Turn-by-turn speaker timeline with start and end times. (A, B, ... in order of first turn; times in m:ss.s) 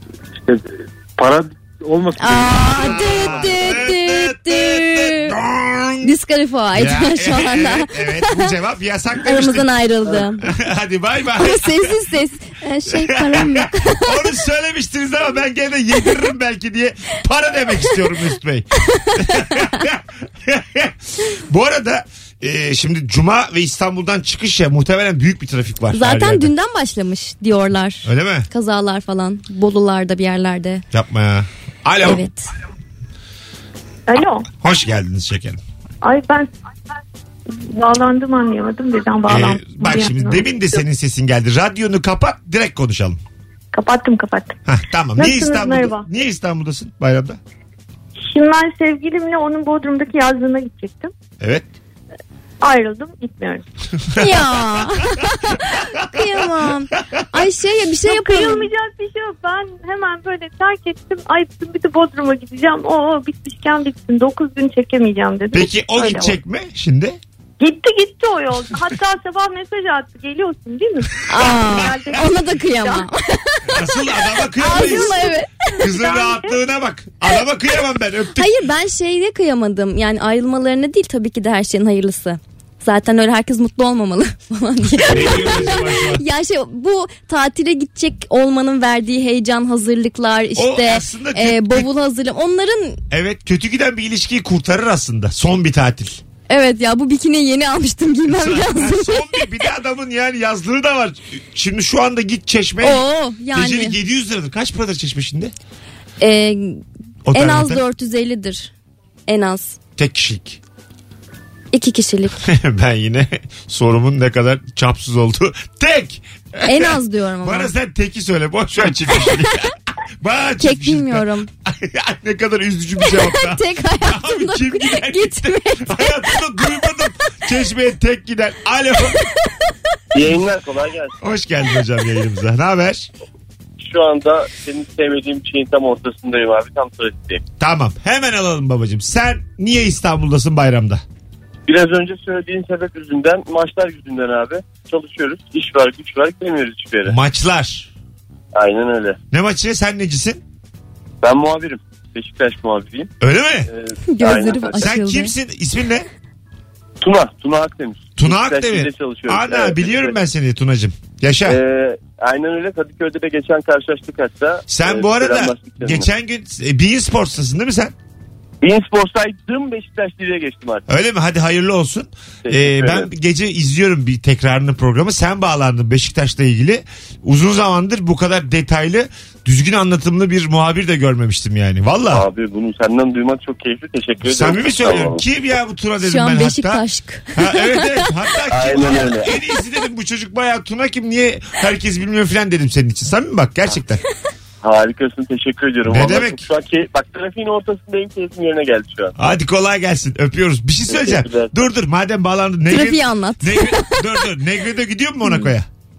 0:00.4-0:03.8 A
0:02.2-0:05.3 B
0:02.6-0:06.1 C
0:06.0-0:08.5 B
0:06.7-0:09.7 C
0:09.2-0:10.5 B
0:10.4-0:12.0 C
0:11.4-0:14.2 B
0:12.9-0:26.5 C
0:19.0-0:19.8 B
0:25.9-0:30.8 B
0:28.0-0:28.5 C
0:30.9-0:32.2 C
0:32.0-0:32.5 B
0:34.1-0:34.5 D
0:34.6-0:35.6 C
0:36.0-0:36.5 D
0:37.5-0:40.5 D
0:39.3-0:43.2 C
0:43.7-0:44.5 D
0:44.6-0:47.4 C
0:45.2-0:46.0 D
0:48.3-0:51.1 D
0:51.4-0:51.6 C
0:52.6-0:53.6 D
0:54.2-0:58.7 B
0:58.0-1:06.3 D
1:05.5-1:07.2 C
1:07.6-1:13.1 D
1:11.3-1:13.9 B
1:13.7-1:15.2 C
1:14.6-1:15.5 B
1:14.6-1:16.6 D
1:15.8-1:18.5 C
1:18.4-1:33.0 B
1:25.0-1:26.2 C
1:30.6-1:31.9 C
1:33.1-1:36.2 C
1:36.5-1:39.4 B
1:38.3-1:45.5 C
1:42.8-1:44.0 B
1:46.2-1:48.7 B
1:47.2-1:47.8 C
1:49.3-1:49.8 B
1:50.0-1:50.6 C
1:51.7-1:52.4 B
1:52.4-2:09.2 C
1:56.6-1:57.7 B
2:00.6-2:01.5 B
2:03.0-2:06.3 B
2:10.1-2:11.2 E
2:11.2-2:13.1 C
2:13.8-2:17.4 E
2:17.6-2:21.0 C
2:21.7-2:27.2 E
2:27.0-2:27.9 C
2:28.5-2:29.2 E
2:29.3-2:30.4 C
2:31.2-2:33.1 E
2:33.2-2:33.7 C
2:33.7-2:34.9 E
2:34.1-2:35.3 B
2:34.8-2:36.1 C
2:37.0-2:40.2 E
2:38.2-2:41.6 C
2:41.4-2:46.1 E
2:44.7-2:47.9 C
2:48.6-2:50.8 E
2:50.9-3:02.2 C
2:52.4-2:53.1 E
3:02.1-3:05.2 E
3:04.2-3:14.0 C
3:06.0-3:08.0 B
3:08.5-3:09.3 E
3:14.6-3:19.1 E
3:15.8-3:16.4 C
3:19.2-3:25.7 C
3:20.9-3:21.6 E
3:22.7-3:24.0 B
3:25.2-3:25.5 B